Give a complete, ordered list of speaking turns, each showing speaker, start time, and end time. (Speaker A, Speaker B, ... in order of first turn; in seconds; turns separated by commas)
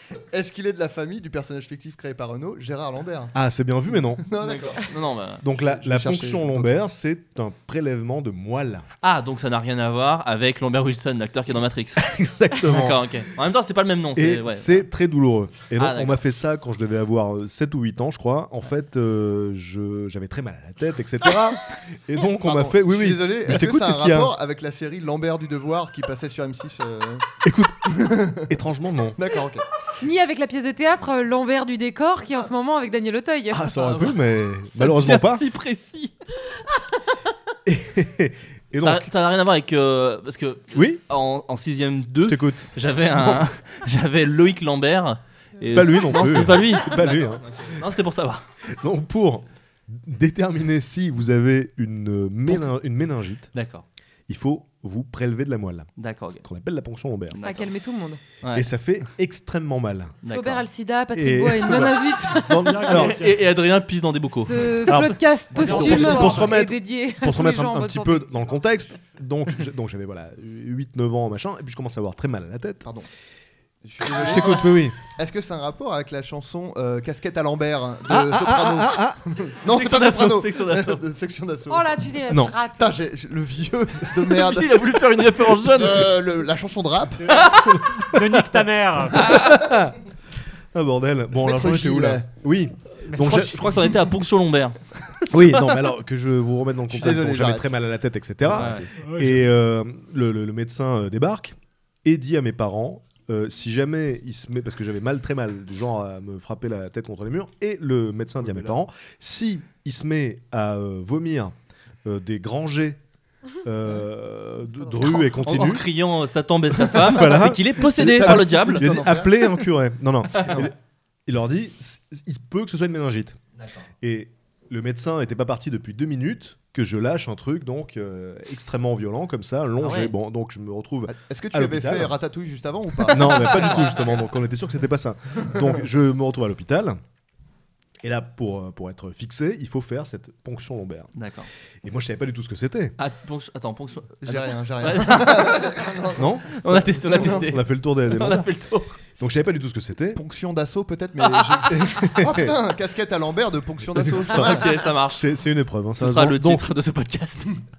Speaker A: 0.3-3.3, Speaker B: 3.3-4.2, Speaker A: 4.2-4.9, Speaker C: 4.4-5.4, Speaker B: 5.4-8.8, Speaker A: 5.6-6.7, Speaker C: 9.0-14.9, Speaker B: 12.0-13.0, Speaker B: 14.2-24.3, Speaker C: 15.8-16.2, Speaker A: 22.4-27.3, Speaker B: 27.4-29.2, Speaker A: 27.8-28.5, Speaker A: 29.1-29.6, Speaker D: 30.0-33.6, Speaker B: 33.5-35.4, Speaker C: 33.7-36.1, Speaker B: 37.6-39.1, Speaker C: 38.8-48.4, Speaker B: 40.7-41.0, Speaker B: 42.2-42.7, Speaker D: 45.6-46.0, Speaker B: 45.6-47.4, Speaker B: 48.7-53.5, Speaker C: 53.5-53.8, Speaker B: 54.3-55.9, Speaker C: 56.0-56.4, Speaker B: 56.4-57.4, Speaker C: 57.3-57.7, Speaker D: 57.4-58.2, Speaker C: 58.4-58.7, Speaker B: 58.5-60.2, Speaker C: 60.2-60.6, Speaker D: 60.3-62.9, Speaker B: 61.1-63.2, Speaker E: 62.6-63.4, Speaker C: 62.9-65.0, Speaker D: 64.4-68.3, Speaker B: 64.9-72.8, Speaker E: 65.6-66.6, Speaker A: 73.8-81.9, Speaker B: 74.0-75.0, Speaker B: 78.1-79.2, Speaker C: 79.6-81.0, Speaker D: 81.7-82.9, Speaker B: 82.3-82.5, Speaker A: 82.7-87.5, Speaker C: 84.0-86.2, Speaker C: 87.3-87.8, Speaker B: 87.3-88.4, Speaker E: 88.0-89.3, Speaker C: 89.1-89.7, Speaker B: 89.1-90.0, Speaker B: 90.7-93.6, Speaker A: 91.4-92.2, Speaker E: 93.1-93.4, Speaker C: 93.1-95.8, Speaker B: 95.3-111.5, Speaker A: 96.9-97.7, Speaker C: 98.5-98.9, Speaker E: 99.0-99.4, Speaker A: 108.4-108.8, Speaker B: 112.0-113.0, Speaker B: 113.6-115.9, Speaker D: 114.7-115.6, Speaker C: 115.3-119.3, Speaker B: 116.8-120.7, Speaker A: 118.0-119.5, Speaker C: 120.3-120.6, Speaker B: 121.2-123.4, Speaker C: 123.6-123.8, Speaker B: 124.0-132.2, Speaker C: 129.8-130.1, Speaker A: 131.1-133.8, Speaker B: 133.1-137.0, Speaker C: 133.1-134.2, Speaker B: 138.0-141.1, Speaker C: 141.2-141.5, Speaker B: 141.8-142.9, Speaker C: 143.0-145.8, Speaker A: 144.2-147.5, Speaker B: 146.2-146.5, Speaker C: 146.4-148.9, Speaker B: 147.1-148.5, Speaker B: 149.2-150.2, Speaker A: 150.1-154.8, Speaker C: 151.2-151.8, Speaker B: 151.7-152.6, Speaker B: 153.8-156.7, Speaker C: 154.2-155.3, Speaker C: 156.0-157.6